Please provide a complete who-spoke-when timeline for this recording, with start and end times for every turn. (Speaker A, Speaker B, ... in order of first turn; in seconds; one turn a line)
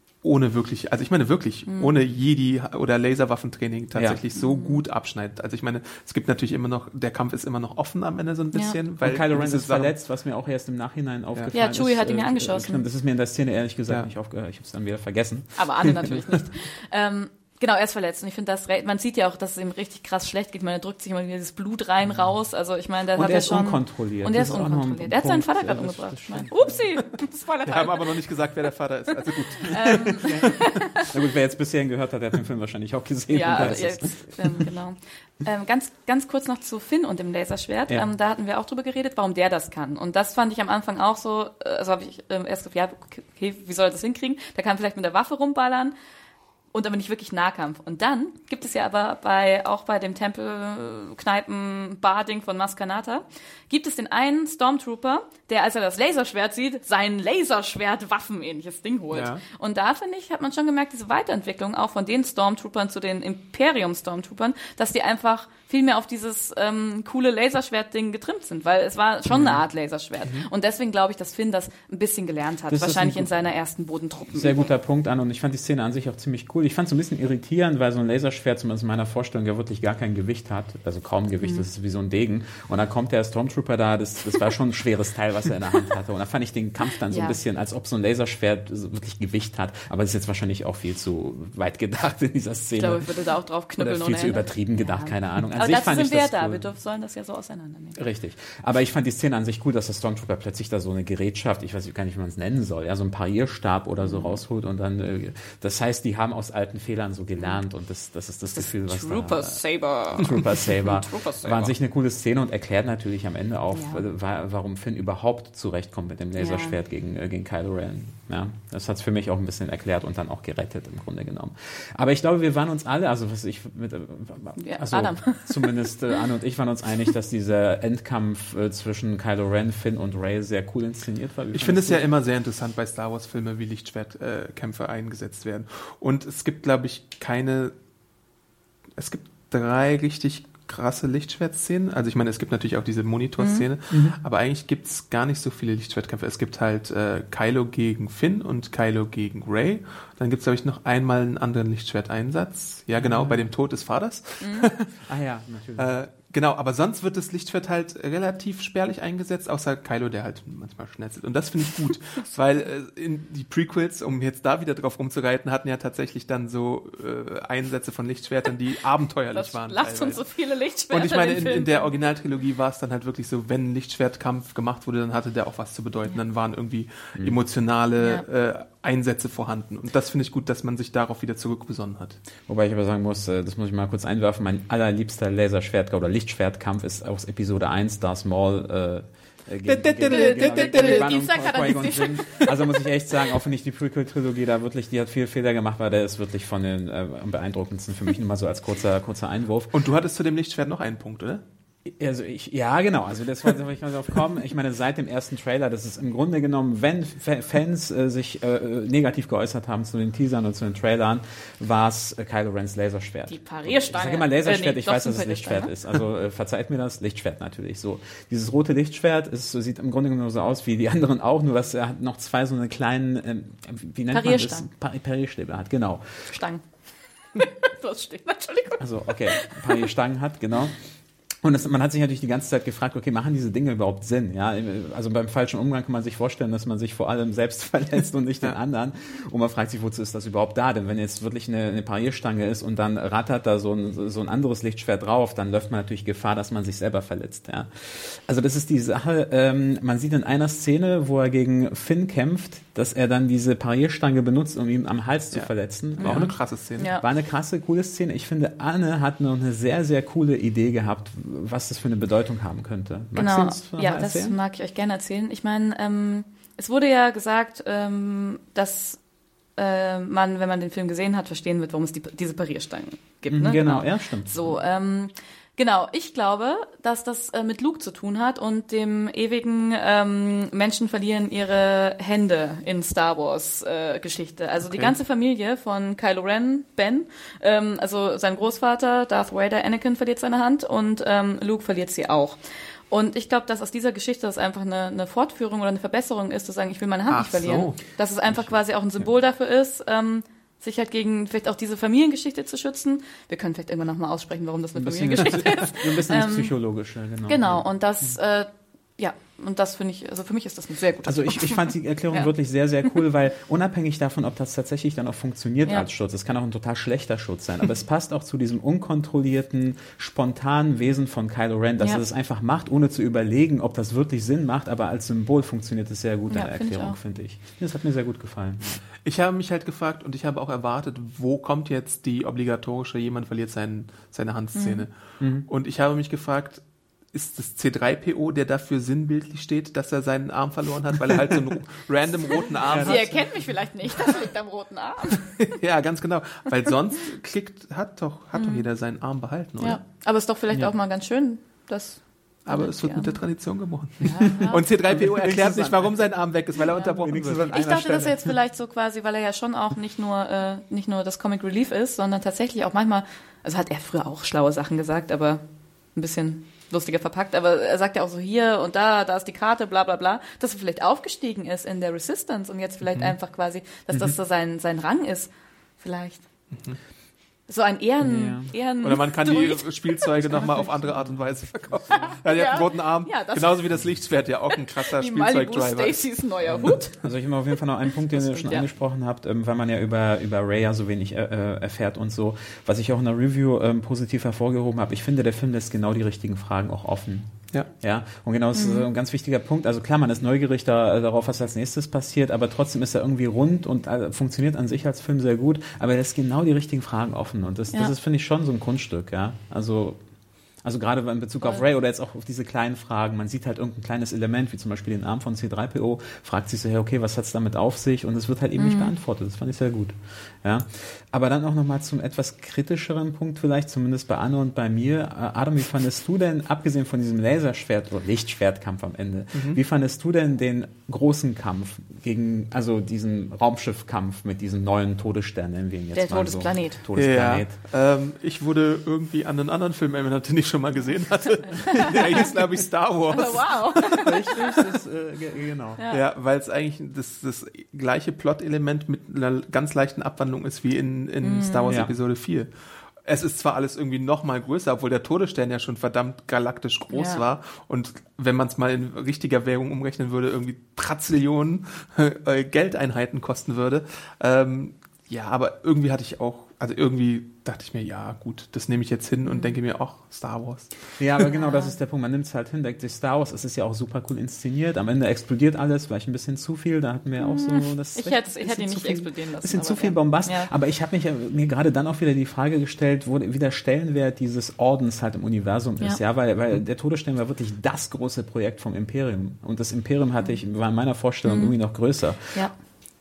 Speaker A: 0.2-9.9
Speaker B: 1.7-1.9
Speaker C: 4.0-4.2
Speaker B: 4.3-4.8
Speaker C: 9.0-16.3
Speaker B: 11.5-12.8
Speaker B: 15.6-28.1
Speaker C: 23.2-26.8
Speaker A: 27.6-30.3
Speaker B: 29.6-31.1
Speaker C: 29.9-34.6
Speaker B: 33.3-46.0
Speaker B: 46.7-74.7
Speaker A: 59.1-59.4
Speaker C: 72.7-73.3
Speaker C: 74.3-93.0
Speaker B: 87.1-87.4
Speaker B: 92.8-98.0
Speaker C: 93.8-96.7
Speaker C: 98.0-132.1
Speaker B: 104.0-104.4
Speaker B: 108.5-111.7
Speaker B: 113.7-114.0
Speaker B: 116.4-116.8
Speaker B: 124.6-125.8
Speaker A: 131.5-137.7
Speaker A: 139.0-154.9
Speaker B: 143.4-143.7
Speaker C: 143.9-144.2
Speaker C: 153.0-153.4
Speaker B: 154.4-154.7
Speaker C: 155.1-155.9
Speaker A: 155.8-170.2
Speaker B: 169.3-171.9
Speaker A: 170.9-182.2
Speaker B: 178.0-178.2
Speaker C: 182.5-199.7
Speaker A: 189.7-191.2
Speaker B: 190.1-192.5
Speaker A: 199.7-201.4
Speaker C: 201.8-226.4
Speaker B: 213.3-215.7
Speaker B: 224.1-224.7
Speaker B: 226.3-226.7
Speaker B: 227.3-229.9
Speaker C: 228.8-230.8
Speaker C: 231.4-256.4
Speaker A: 255.3-256.9
Speaker B: 256.0-257.1
Speaker C: 257.0-264.4
Speaker B: 263.1-269.0
Speaker B: 269.6-292.4
Speaker C: 273.3-274.6
Speaker A: 284.6-284.9
Speaker B: 292.9-306.5
Speaker A: 297.1-297.8
Speaker C: 298.4-299.0
Speaker C: 304.8-307.7
Speaker B: 307.3-312.3
Speaker C: 311.1-328.9
Speaker B: 326.3-327.0
Speaker A: 329.1-343.2
Speaker B: 334.6-334.9
Speaker C: 335.2-335.5
Speaker C: 342.7-343.2
Speaker B: 342.8-345.4
Speaker A: 345.4-349.8
Speaker B: 348.4-348.7
Speaker B: 349.6-353.2
Speaker A: 352.5-357.6
Speaker B: 354.0-354.6
Speaker C: 354.3-355.9
Speaker B: 356.7-365.4
Speaker C: 357.0-358.3
Speaker B: 365.9-376.2
Speaker C: 372.9-373.1
Speaker A: 376.5-376.8
Speaker B: 377.5-380.9
Speaker C: 378.0-378.5
Speaker A: 378.8-386.8
Speaker B: 381.9-383.6
Speaker B: 384.7-386.9
Speaker C: 386.5-410.0
Speaker B: 387.9-388.7
Speaker B: 398.6-398.9
Speaker C: 410.6-437.6
Speaker B: 418.6-418.9
Speaker A: 429.3-429.6
Speaker B: 435.9-436.8
Speaker A: 437.0-444.0
Speaker B: 441.8-442.2
Speaker B: 443.1-444.4
Speaker C: 443.9-445.8
Speaker B: 445.8-446.1
Speaker A: 445.9-452.5
Speaker B: 451.2-451.8
Speaker C: 451.7-451.9
Speaker A: 453.0-470.8
Speaker B: 456.9-457.2
Speaker B: 469.3-469.6
Speaker C: 471.0-492.5
Speaker B: 471.3-471.7
Speaker B: 477.2-480.5
Speaker B: 491.2-491.6